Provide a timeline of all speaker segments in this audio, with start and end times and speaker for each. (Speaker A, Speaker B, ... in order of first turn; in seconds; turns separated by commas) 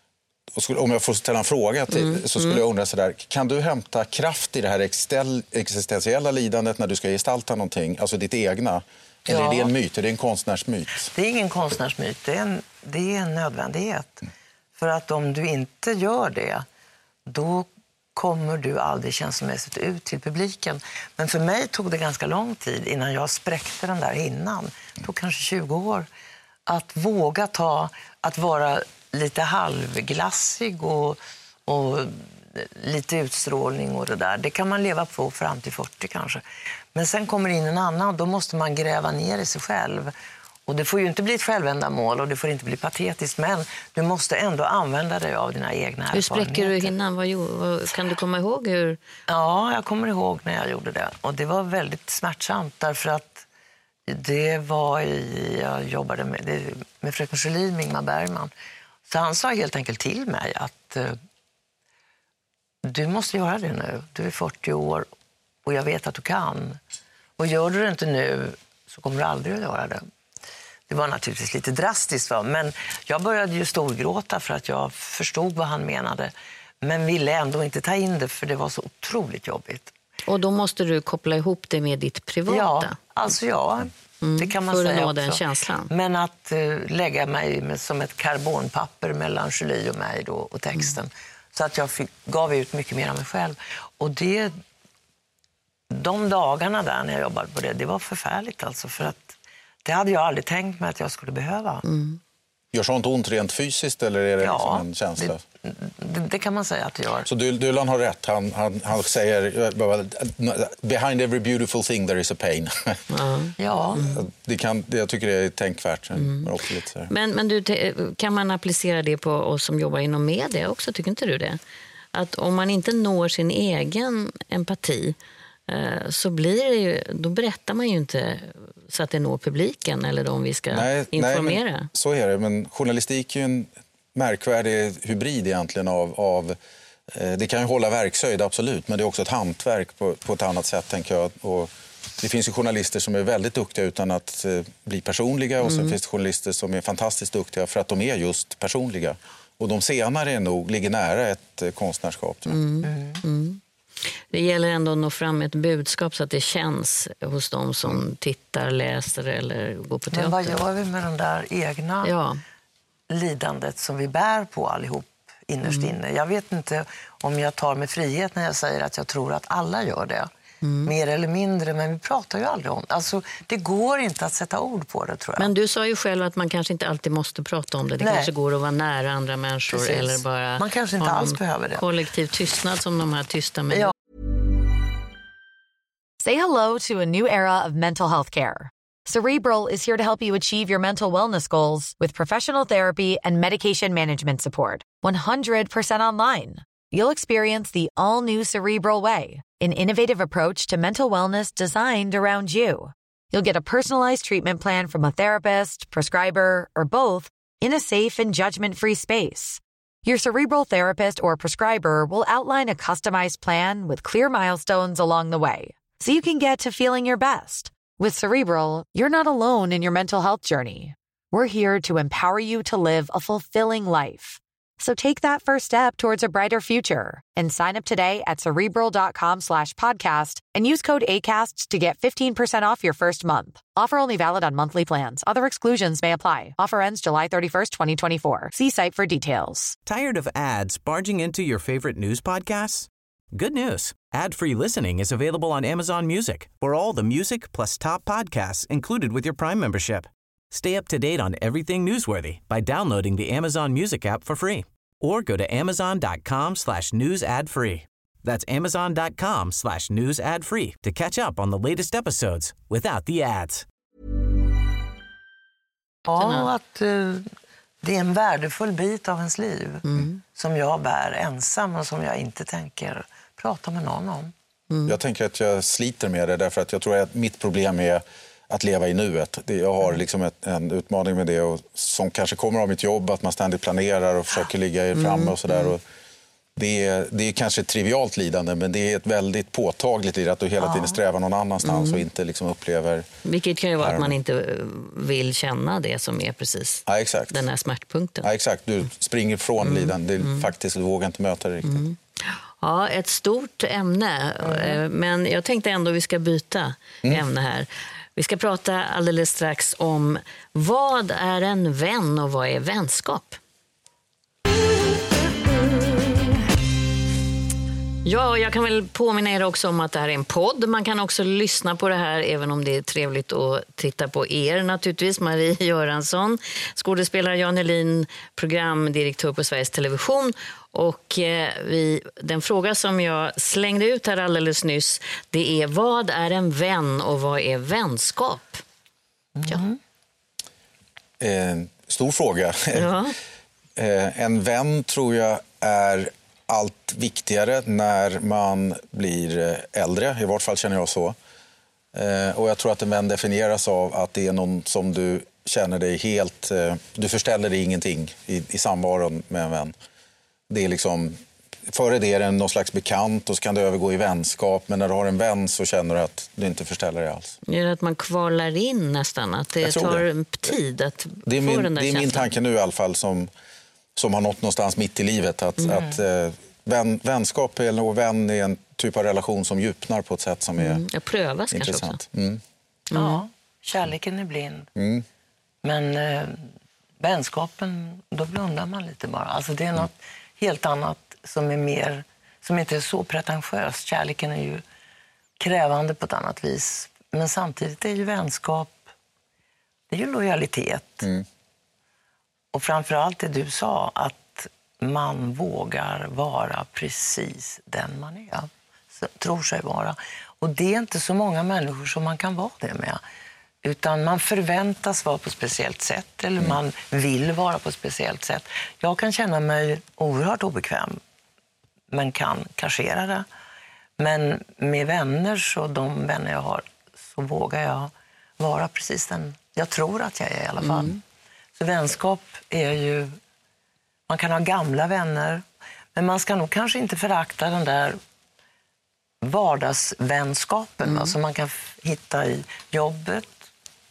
Speaker A: 0.5-11.1, Speaker B: 1.9-2.6, Speaker C: 9.3-9.7, Speaker C: 11.1-16.6, Speaker C: 17.3-26.1, Speaker C: 26.7-36.4, Speaker C: 36.9-40.1, Speaker C: 40.7-47.0, Speaker B: 46.1-49.0, Speaker C: 49.3-53.5, Speaker C: 54.1-58.5, Speaker C: 59.1-61.2, Speaker C: 62.9-65.1, Speaker C: 65.7-66.8, Speaker C: 67.4-70.0, Speaker C: 70.9-79.9, Speaker B: 80.3-83.0, Speaker C: 82.5-94.5, Speaker B: 84.2-85.9, Speaker C: 95.9-99.3, Speaker C: 99.8-101.8, Speaker B: 101.8-102.2, Speaker A: 102.7-105.4, Speaker C: 104.4-107.3, Speaker A: 107.3-113.0, Speaker B: 113.1-114.3, Speaker C: 113.6-114.0, Speaker A: 114.0-117.1, Speaker B: 116.2-116.5, Speaker B: 117.1-121.6, Speaker B: 122.1-125.2, Speaker B: 125.7-131.9, Speaker A: 130.7-136.6, Speaker A: 137.1-152.6, Speaker B: 145.6-146.0, Speaker B: 152.5-153.6, Speaker C: 152.8-153.2, Speaker B: 154.3-160.6, Speaker C: 160.1-162.1, Speaker B: 162.0-162.4, Speaker C: 163.1-170.3, Speaker B: 165.7-165.9, Speaker B: 170.6-170.9, Speaker C: 170.9-175.5, Speaker B: 175.4-183.9, Speaker C: 178.0-178.3, Speaker C: 179.7-181.8, Speaker D: 186.2-239.8, Speaker E: 239.9-263.6, Speaker C: 266.1-267.2, Speaker B: 266.2-266.5, Speaker C: 267.8-274.3, Speaker B: 269.9-270.2, Speaker B: 274.7-275.0, Speaker A: 274.9-285.8, Speaker B: 284.9-285.7, Speaker A: 286.6-293.1, Speaker C: 290.6-291.0, Speaker B: 291.6-292.1, Speaker B: 293.2-298.3, Speaker A: 293.8-294.1, Speaker A: 296.9-297.4, Speaker A: 298.2-301.8, Speaker B: 299.6-300.5, Speaker B: 301.6-313.4, Speaker C: 304.4-304.8, Speaker B: 318.1-338.6, Speaker C: 339.4-339.8, Speaker A: 341.2-342.9, Speaker B: 342.8-343.1, Speaker A: 343.8-351.2, Speaker A: 351.9-359.7, Speaker A: 360.5-367.4, Speaker B: 367.5-372.3, Speaker A: 369.6-370.1, Speaker A: 371.2-373.3, Speaker A: 374.0-380.8, Speaker B: 380.6-382.0, Speaker A: 381.5-382.4, Speaker B: 382.9-383.2, Speaker C: 382.9-384.7, Speaker A: 384.8-385.1, Speaker C: 385.6-386.4, Speaker C: 387.0-394.6, Speaker C: 395.4-398.8, Speaker C: 399.9-401.1, Speaker C: 402.5-413.0, Speaker C: 413.6-421.0, Speaker C: 421.9-423.3, Speaker C: 424.0-431.0, Speaker B: 430.6-431.0, Speaker C: 431.6-433.1, Speaker C: 434.1-435.4, Speaker C: 435.9-438.0, Speaker C: 439.2-443.4, Speaker B: 440.9-441.1